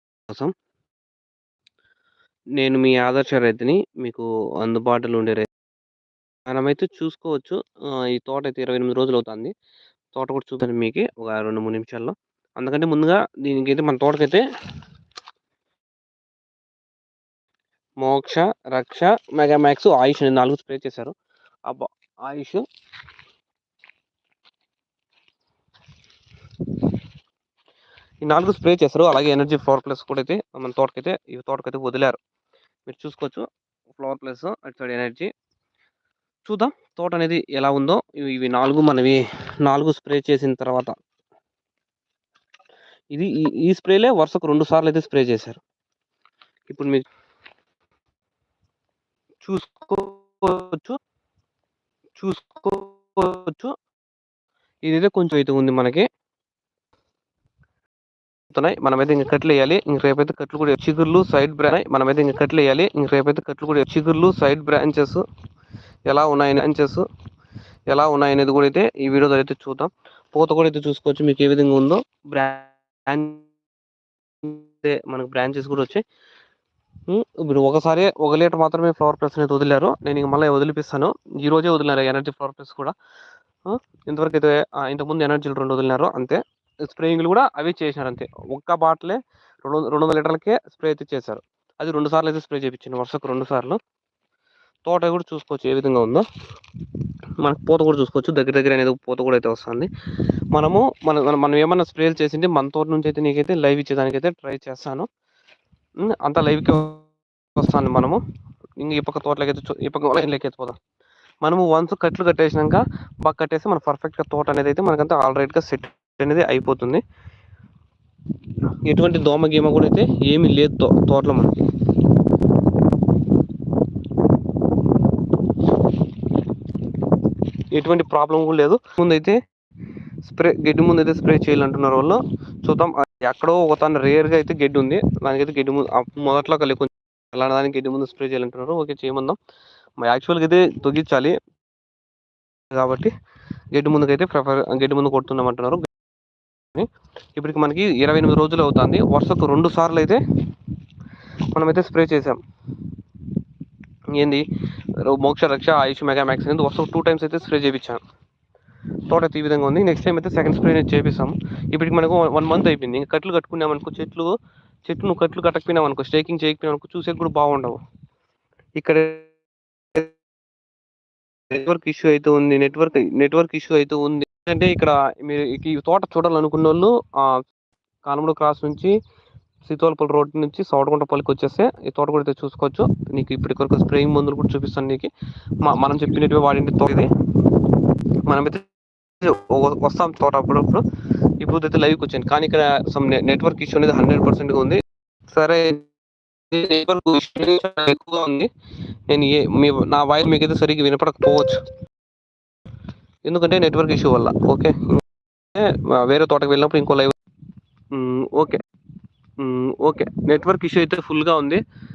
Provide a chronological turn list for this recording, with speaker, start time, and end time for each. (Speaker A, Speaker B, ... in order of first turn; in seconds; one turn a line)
Speaker A: 0.3-0.5
Speaker A: 2.6-5.5
Speaker A: 6.5-9.5
Speaker A: 10.1-14.4
Speaker A: 18.0-21.1
Speaker A: 21.7-22.6
Speaker A: 28.2-32.2
Speaker A: 32.9-35.3
Speaker A: 36.5-41.0
Speaker A: 43.1-45.6
Speaker A: 46.7-47.0
Speaker A: 49.4-51.0
Speaker A: 52.2-53.7
Speaker A: 54.9-56.1
Speaker A: 58.5-65.2
Speaker A: 66.1-67.0
Speaker A: 67.9-73.5
Speaker A: 74.4-76.0
Speaker A: 77.1-82.9
Speaker A: 83.7-93.8
Speaker A: 94.9-96.2
Speaker A: 97.4-99.9
Speaker A: 100.5-105.1
Speaker A: 106.0-107.0
Speaker A: 107.6-108.2
Speaker A: 108.8-110.8
Speaker A: 111.4-117.0
Speaker A: 118.8-121.6
Speaker A: 127.7-129.4
Speaker A: 130.2-139.4
Speaker A: 140.0-141.4
Speaker A: 142.7-143.1
Speaker A: 143.7-145.9
Speaker A: 146.7-150.2
Speaker A: 151.5-152.4
Speaker A: 154.1-154.4
Speaker A: 155.0-158.0
Speaker A: 159.1-167.8
Speaker A: 168.8-169.3
Speaker A: 171.5-177.4
Speaker A: 178.1-178.9
Speaker A: 179.6-185.1
Speaker A: 185.6-187.1
Speaker A: 188.3-188.6
Speaker A: 189.2-190.8
Speaker A: 191.4-194.8
Speaker A: 195.3-195.8
Speaker A: 196.5-198.5
Speaker A: 199.1-201.6
Speaker A: 203.2-205.0
Speaker A: 205.6-207.1
Speaker A: 207.9-208.6
Speaker A: 209.4-211.6